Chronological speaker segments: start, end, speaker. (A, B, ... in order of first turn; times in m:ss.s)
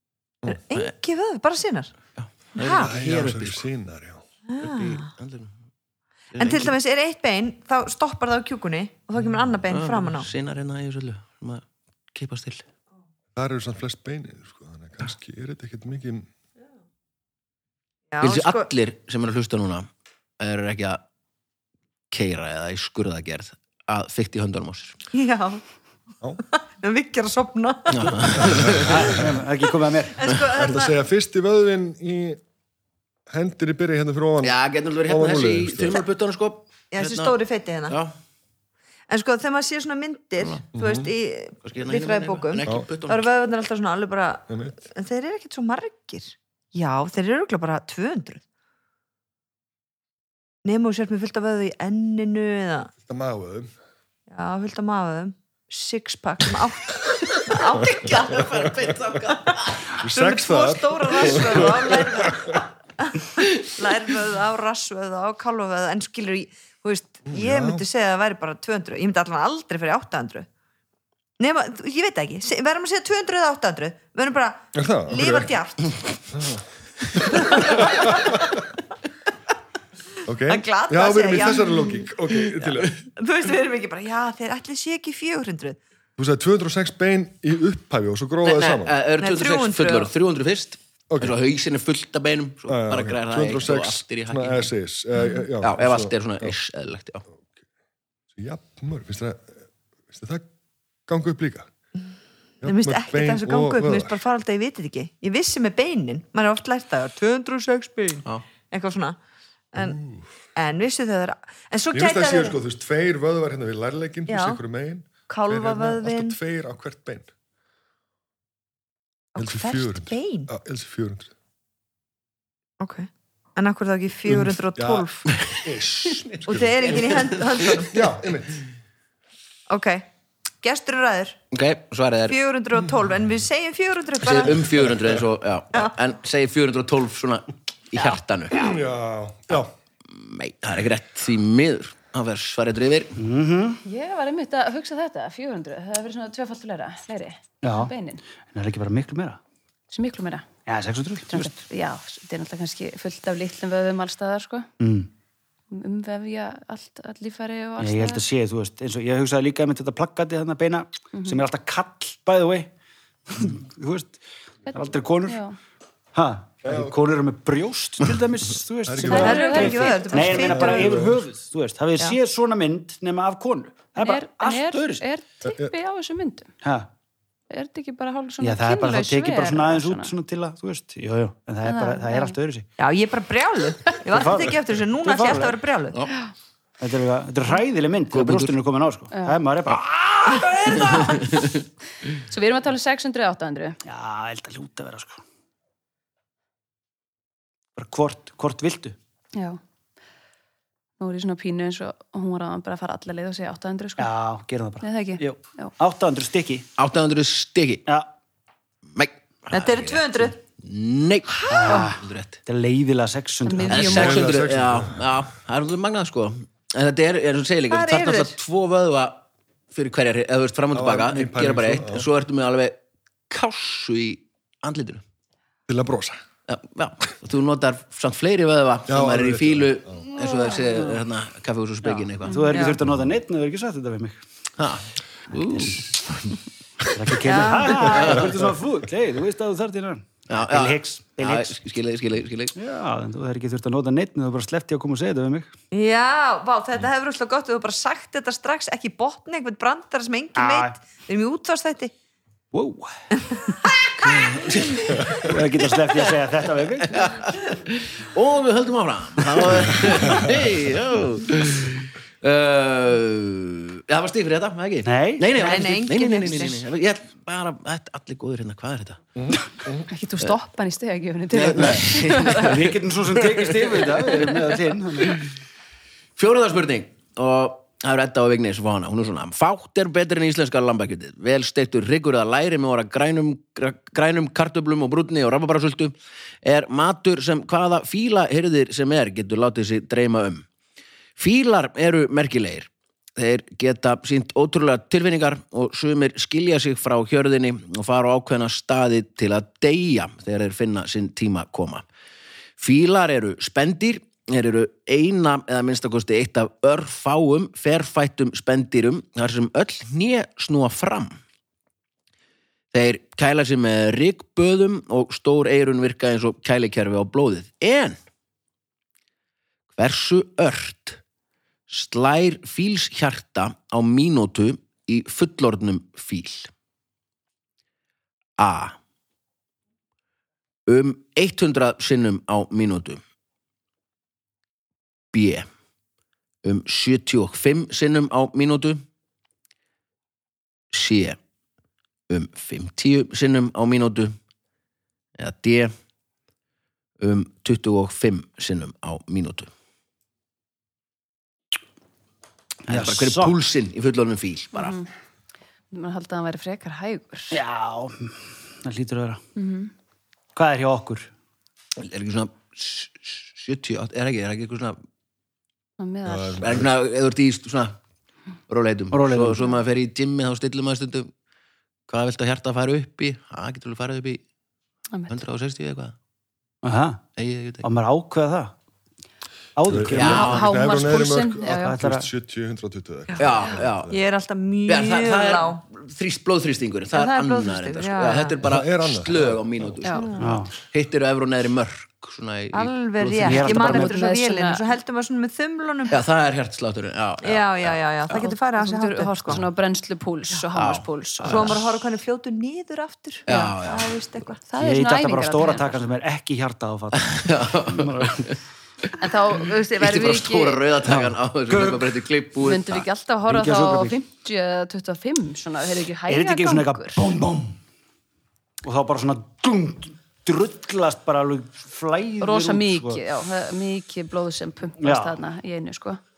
0:00.5-0:01.9 A
0:02.2-0:03.7 B
0:02.6-0:02.9 A
0:02.7-0:04.2 C
0:04.5-0:05.1 A
0:04.6-0:05.6 B
0:06.3-0:06.8 B
0:06.4-0:10.3 A
0:09.7-0:12.6 B
0:13.4-0:16.3 C
0:18.1-0:18.7 A
0:18.2-0:19.9 B
0:20.4-0:21.0 B
0:22.1-0:25.0 B
0:25.1-0:25.6 A
0:26.8-0:28.5 A
0:27.9-0:29.2 B
0:28.4-0:29.2 C
0:28.7-0:30.2 D
0:30.1-0:31.0 A
0:30.5-0:32.4 C
0:33.3-0:36.0 C
0:34.4-0:37.4 B
0:36.9-0:38.0 A
0:37.9-0:38.2 B
0:39.1-0:48.4 A
0:40.4-0:40.6 B
0:40.8-0:41.1 C
0:41.6-0:43.3 B
0:44.5-0:44.8 C
0:50.6-0:52.9 A
0:53.1-0:53.7 C
0:54.3-0:58.9 A
0:57.6-0:59.8 B
1:00.0-1:02.5 C
1:00.0-1:10.5 A
1:07.3-1:07.8 C
1:11.4-1:16.0 A
1:14.7-1:15.6 C
1:16.3-1:18.6 C
1:17.3-1:18.5 A
1:20.2-1:23.1 C
1:20.5-1:25.8 A
1:26.2-1:29.0 C
1:28.4-1:34.7 B
1:29.2-1:30.1 A
1:31.1-1:31.4 C
1:32.7-1:36.6 C
1:35.6-1:37.2 B
1:38.4-1:39.6 C
1:40.1-1:40.5 C
1:41.1-1:41.7 C
1:42.6-1:44.2 C
1:42.6-1:49.2 A
1:49.7-1:50.0 A
1:49.8-1:50.3 C
1:50.6-1:52.6 A
1:51.9-1:57.3 C
1:54.3-1:54.6 A
1:55.3-1:56.4 A
1:59.4-2:00.5 A
1:59.4-2:01.3 C
2:02.8-2:05.3 A
2:04.3-2:07.3 C
2:05.3-2:07.9 B
2:06.5-2:08.0 A
2:07.9-2:08.6 C
2:09.7-2:10.1 A
2:10.6-2:11.4 A
2:11.5-2:12.4 B
2:12.3-2:14.7 A
2:14.2-2:18.8 B
2:18.5-2:19.7 C
2:19.5-2:23.2 B
2:23.2-2:23.8 D
2:23.8-2:28.2 E
2:27.6-2:27.9 D
2:28.5-2:29.4 D
2:29.9-2:30.5 E
2:30.7-2:31.5 D
2:31.3-2:34.7 E
2:34.8-2:35.1 D
2:35.7-2:38.2 E
2:37.8-2:42.7 D
2:41.1-2:41.4 E
2:43.3-2:45.4 D
2:44.7-2:45.6 E
2:46.1-2:55.0 D
2:46.6-2:47.0 C
2:48.9-2:51.2 C
2:49.0-2:50.5 E
2:49.1-2:51.1 A
2:54.0-2:56.5 E
2:55.4-2:55.7 C
2:56.6-2:56.9 D
2:57.5-3:00.1 E
2:58.4-3:02.7 D
3:01.6-3:02.4 E
3:02.8-3:06.0 A
3:04.1-3:05.6 D
3:06.8-3:11.4 D
3:08.1-3:08.6 B
3:11.0-3:11.6 B
3:12.2-3:13.8 E
3:13.9-3:15.2 D
3:17.8-3:19.0 D
3:19.3-3:19.6 E
3:21.0-3:24.1 E
3:24.0-3:26.7 D
3:24.8-3:25.7 E
3:26.8-3:27.9 B
3:29.0-3:32.4 B
3:29.5-3:30.4 A
3:31.4-3:31.8 A
3:31.5-3:34.1 D
3:33.4-3:34.3 E
3:33.7-3:42.8 B
3:33.9-3:35.1 C
3:37.7-3:38.4 A
3:40.7-3:42.1 C
3:43.3-3:45.0 B
3:45.7-3:46.2 C
3:46.5-3:52.4 B
3:48.9-3:50.0 C
3:50.5-3:50.9 D
3:51.8-3:54.2 D
3:52.3-3:52.5 E
3:52.5-3:52.8 A
3:54.6-3:56.3 B
3:56.9-4:01.6 D
3:57.2-3:58.0 A
3:57.7-3:58.4 B
4:00.3-4:02.6 B
4:02.6-4:05.5 D
4:05.7-4:11.9 A
4:10.4-4:10.8 D
4:12.5-4:12.9 D
4:14.0-4:15.4 B
4:14.0-4:17.2 D
4:16.8-4:29.0 B
4:24.8-4:25.4 D
4:25.4-4:26.6 A
4:29.2-4:29.9 C
4:29.9-4:32.7 E
4:31.3-4:34.3 B
4:32.4-4:35.2 D
4:36.2-4:50.5 B
4:51.2-5:01.9 B
5:02.6-5:11.2 B
5:12.7-5:18.0 B
5:19.7-5:21.0 B
5:21.7-5:26.5 B
5:28.4-5:28.8 B
5:30.7-5:33.0 B
5:35.1-5:35.5 B
5:36.4-5:38.8 B
5:40.7-5:41.2 B
5:42.1-5:44.2 B
5:45.2-5:45.7 B
5:47.0-5:49.5 B
5:52.7-5:53.4 D
5:52.7-5:54.8 B
5:54.6-5:54.9 E
5:55.7-5:57.4 E
5:57.3-5:59.2 D
5:59.4-5:59.7 E
6:00.4-6:01.1 D
6:01.8-6:04.8 B
6:05.8-6:06.4 E
6:06.0-6:06.7 C
6:06.4-6:07.8 B
6:08.5-6:11.1 B
6:08.9-6:09.4 D
6:11.9-6:14.2 B
6:15.1-6:16.0 B
6:16.6-6:17.0 D
6:17.2-6:17.7 B
6:17.6-6:18.5 D
6:19.6-6:20.4 D
6:19.7-6:24.0 C
6:19.9-6:20.5 B
6:20.0-6:21.8 E
6:21.6-6:22.1 D
6:23.2-6:23.9 B
6:23.9-6:25.6 A
6:24.7-6:33.6 B
6:26.9-6:28.4 A
6:28.4-6:29.8 C
6:29.8-6:30.1 E
6:30.0-6:30.4 A
6:30.2-6:30.5 D
6:32.5-6:36.0 A
6:33.2-6:34.0 D
6:33.4-6:34.6 E
6:35.9-6:38.3 B
6:37.2-6:39.4 A
6:38.2-6:41.6 E
6:40.6-6:41.7 B
6:41.2-6:44.4 A
6:43.3-6:43.9 B
6:43.3-6:43.6 E
6:44.5-6:45.9 E
6:44.6-6:48.3 D
6:46.9-6:48.9 B
6:49.0-6:50.8 E
6:49.8-6:52.9 B
6:50.8-6:51.9 D
6:52.4-6:57.0 E
6:53.3-6:54.0 D
6:56.1-6:57.6 D
6:58.6-7:03.0 D
7:02.2-7:06.0 E
7:04.8-7:05.2 D